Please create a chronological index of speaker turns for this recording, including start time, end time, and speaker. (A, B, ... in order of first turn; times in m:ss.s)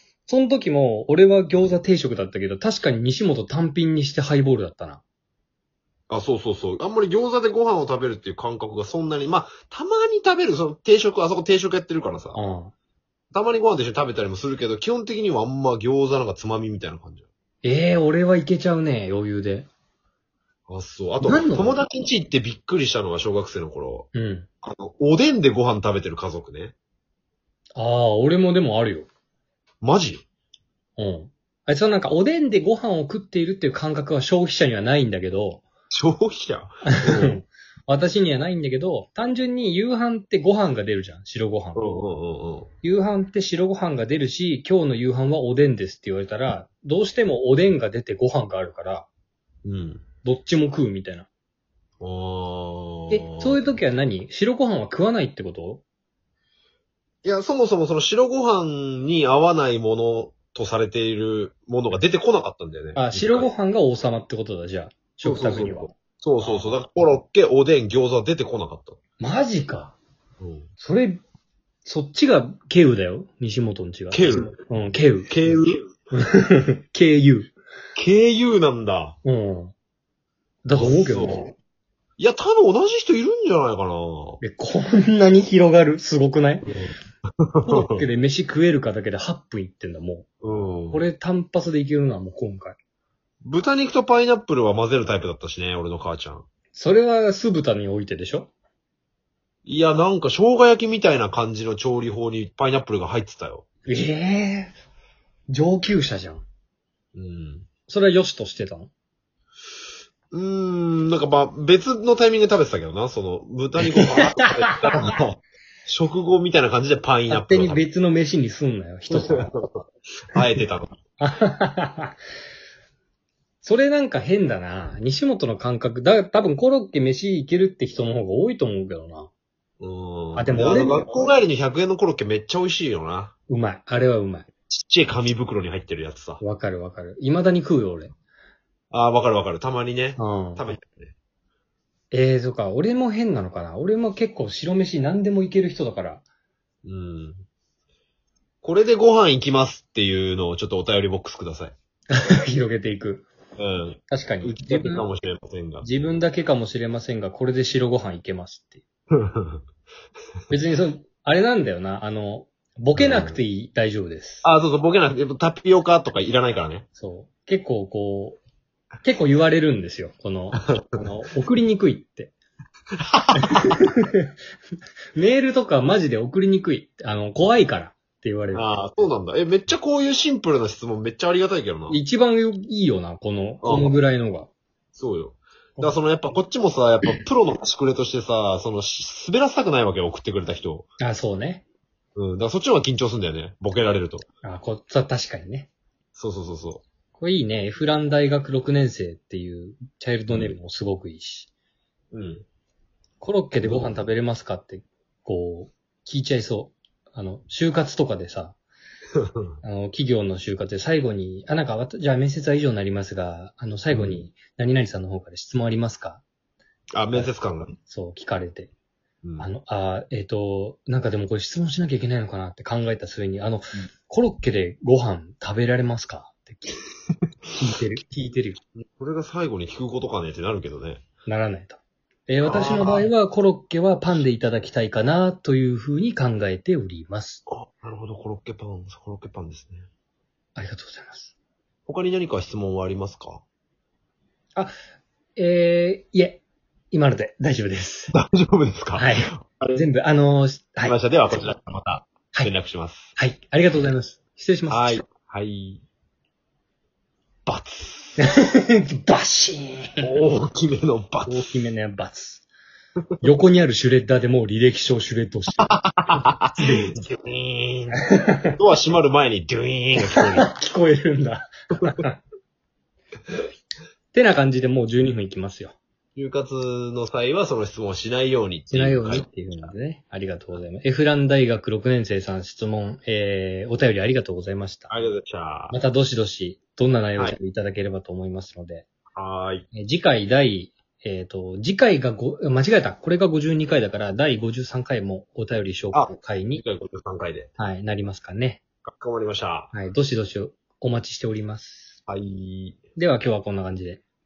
0:00.3-0:05.0 A
0:06.1-0:12.4 B
0:12.4-0:12.7 A
0:13.3-0:17.3 B
0:17.6-0:19.7 A
0:20.7-0:24.1 B
0:21.2-0:21.8 A
0:24.1-0:24.5 A
0:24.6-0:26.7 B
0:27.8-0:29.1 A
0:29.8-0:30.2 B
0:31.0-0:35.6 A
0:35.9-0:37.4 B
0:36.9-0:42.0 A
0:41.8-0:42.7 B
0:42.8-0:49.1 A
0:49.6-0:50.0 B
0:50.2-0:51.3 A
0:52.0-0:53.6 B
0:53.1-0:55.8 A
0:57.2-1:03.5 B
1:03.0-1:05.9 A
1:05.2-1:09.0 B
1:06.4-1:06.7 A
1:09.2-1:10.0 A
1:10.4-1:10.7 B
1:10.8-1:11.2 A
1:11.8-1:15.3 A
1:14.1-1:14.6 B
1:15.3-1:15.9 B
1:16.1-1:17.5 A
1:18.0-1:19.2 B
1:19.2-1:19.7 A
1:20.6-1:21.5 A
1:20.7-1:21.5 B
1:22.2-1:24.4 B
1:24.4-1:26.7 A
1:26.7-1:26.9 B
1:27.5-1:28.1 B
1:27.6-1:30.3 A
1:30.4-1:31.1 B
1:30.9-1:32.8 A
1:33.4-1:36.5 B
1:36.7-1:38.5 A
1:39.7-1:43.7 B
1:43.9-1:44.7 A
1:45.5-1:46.4 A
1:47.2-1:47.7 B
1:47.9-1:48.9 A
1:50.3-1:57.8 B
1:53.8-1:55.2 A
1:57.3-1:59.5 A
1:59.1-2:00.9 B
2:01.2-2:02.2 A
2:03.6-2:09.3 A
2:09.8-2:13.3 B
2:10.4-2:11.1 A
2:13.5-2:14.5 A
2:14.7-2:16.4 B
2:16.4-2:18.1 A
2:18.9-2:21.1 B
2:20.2-2:20.7 A
2:22.1-2:26.2 A
2:26.8-2:27.4 B
2:28.6-2:31.8 B
2:32.1-2:33.3 A
2:33.6-2:36.2 B
2:34.1-2:35.1 A
2:35.8-2:38.8 A
2:39.1-2:39.6 B
2:40.5-2:44.5 A
2:43.0-2:43.4 B
2:44.4-2:46.9 B
2:47.0-2:48.4 A
2:49.0-2:52.3 A
2:50.6-2:51.0 B
2:53.1-2:53.8 B
2:53.4-2:54.3 A
2:55.2-2:58.7 A
2:58.5-3:02.0 B
3:01.9-3:04.5 A
3:03.6-3:03.9 B
3:05.0-3:10.9 B
3:11.0-3:11.6 A
3:12.2-3:14.3 B
3:14.4-3:15.7 A
3:16.2-3:16.8 B
3:17.2-3:21.5 A
3:20.3-3:20.6 B
3:22.1-3:22.4 B
3:23.2-3:28.6 A
3:23.6-3:23.9 B
3:29.2-3:29.4 B
3:29.6-3:36.2 A
3:33.9-3:34.2 B
3:36.9-3:37.8 B
3:37.9-3:38.7 A
3:39.2-3:39.5 B
3:39.4-3:46.8 A
3:47.6-3:48.6 A
3:48.8-3:51.0 B
3:51.3-3:57.4 A
3:52.4-3:53.1 B
3:57.5-3:59.9 B
4:00.6-4:01.4 A
4:01.9-4:03.4 B
4:05.4-4:08.2 A
4:08.1-4:09.8 B
4:09.0-4:11.0 A
4:10.8-4:13.1 B
4:13.2-4:15.0 A
4:14.7-4:15.8 B
4:17.5-4:18.2 B
4:18.2-4:20.1 A
4:20.0-4:21.5 B
4:21.2-4:22.4 A
4:23.2-4:26.9 A
4:25.6-4:28.0 B
4:27.9-4:28.5 A
4:28.6-4:30.5 B
4:30.0-4:32.2 A
4:34.1-4:35.8 A
4:36.2-4:39.7 B
4:38.7-4:44.9 A
4:44.9-4:45.8 B
4:45.7-4:48.9 A
4:49.2-4:49.7 B
4:49.7-4:56.6 A
4:55.9-4:57.5 B
4:57.6-4:58.6 A
4:58.8-4:59.7 B
4:59.7-5:02.0 A
5:02.1-5:02.8 B
5:03.0-5:04.0 A